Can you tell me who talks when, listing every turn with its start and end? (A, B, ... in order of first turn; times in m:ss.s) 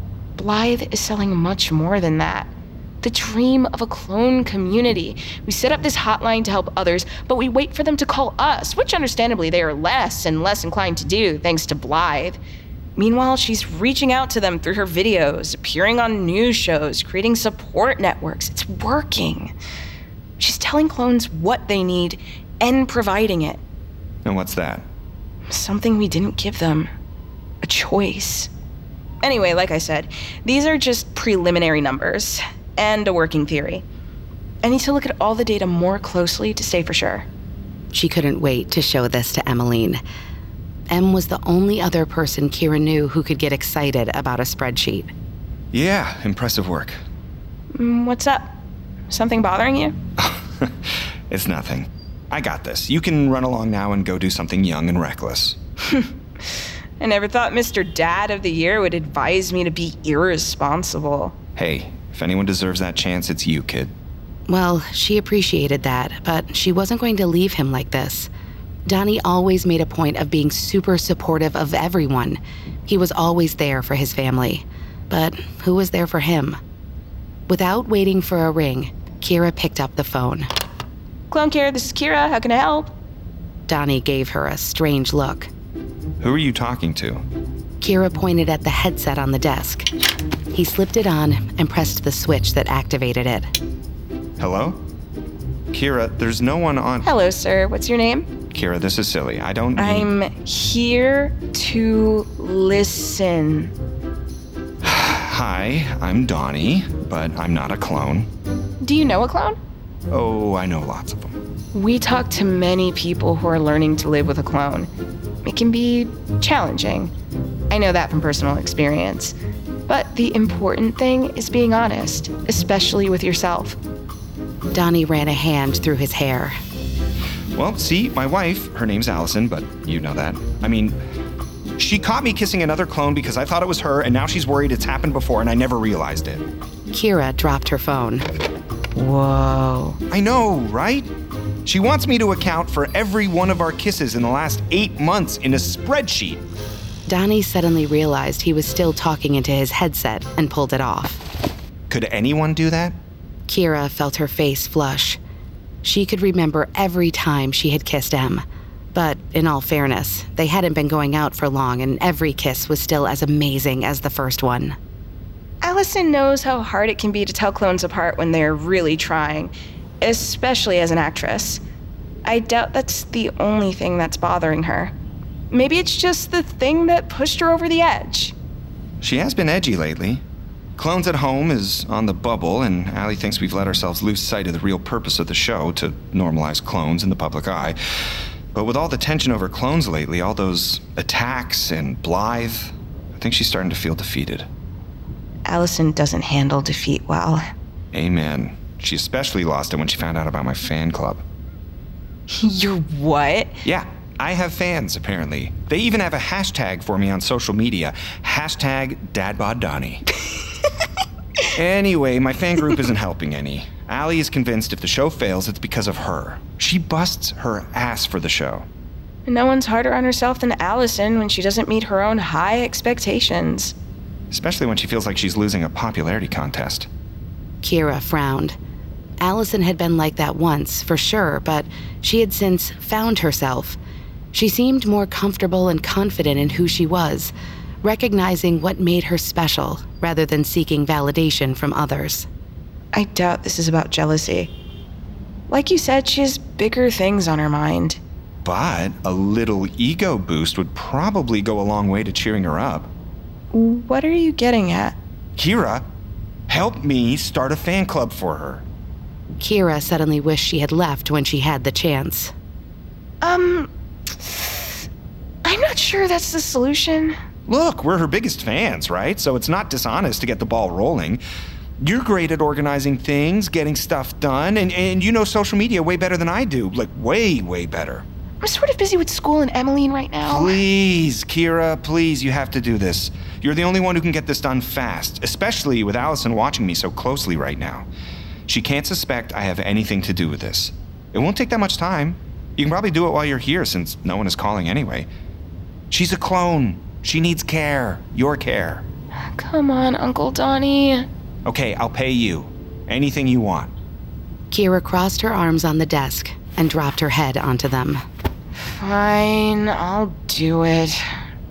0:00.4-0:12.4 A
0:13.0-0:19.5 A
0:20.4-0:23.6 A
0:24.2-0:24.9 B
0:25.5-0:26.9 A
0:27.6-0:28.5 A
0:29.2-0:33.8 A
0:34.6-0:37.3 A
0:37.9-0:40.0 C
0:40.9-0:45.1 C
0:45.7-0:47.0 B
0:47.7-0:48.6 A
0:49.1-0:50.0 A
0:50.2-0:50.7 B
0:51.3-0:55.6 B
0:55.9-1:01.4 A
1:01.6-1:03.9 B
1:04.5-1:08.3 C
1:08.9-1:16.6 C
1:17.5-1:20.5 C
1:21.3-1:22.9 A
1:23.7-1:25.5 C
1:26.2-1:27.2 B
1:27.8-1:29.9 C
1:30.5-1:33.5 C
1:34.4-1:34.8 B
1:35.7-1:37.1 B
1:37.0-1:38.3 A
1:38.5-1:40.1 B
1:39.8-1:43.7 A
1:44.8-1:48.3 B
1:48.8-1:49.6 A
1:50.1-1:51.4 B
1:51.7-1:54.9 A
1:55.4-1:57.1 A
1:57.7-1:59.3 A
1:59.9-2:03.8 A
2:04.7-2:06.6 C
2:07.6-2:11.0 B
2:11.8-2:16.4 B
2:16.9-2:18.2 C
2:19.0-2:20.0 A
2:20.1-2:21.1 B
2:21.7-2:26.4 B
2:27.1-2:31.2 C
2:31.9-2:33.0 B
2:33.5-2:35.2 C
2:35.8-2:44.8 C
2:45.6-2:51.6 A
2:52.2-2:54.9 A
2:55.5-2:58.3 A
2:59.0-3:00.2 B
3:00.8-3:07.8 B
3:08.5-3:14.5 B
3:15.5-3:17.4 A
3:17.9-3:21.2 B
3:22.3-3:23.6 A
3:23.6-3:30.0 B
3:31.6-3:38.7 B
3:39.3-3:43.7 A
3:44.3-3:46.9 B
3:47.6-3:48.6 C
3:49.2-3:53.8 C
3:54.3-4:02.3 C
4:02.9-4:04.5 A
4:05.5-4:08.0 A
4:08.4-4:12.9 B
4:13.5-4:15.0 A
4:15.4-4:15.8 B
4:16.5-4:18.6 B
4:19.4-4:22.3 C
4:23.2-4:24.7 A
4:25.4-4:27.2 A
4:27.5-4:31.2 B
4:31.8-4:38.0 B
4:38.4-4:40.6 A
4:40.3-4:47.9 B
4:48.5-4:55.1 B
4:55.9-4:58.8 B
4:59.4-5:01.1 A
5:01.5-5:03.7 B
5:04.5-5:08.0 C
5:08.8-5:11.0 A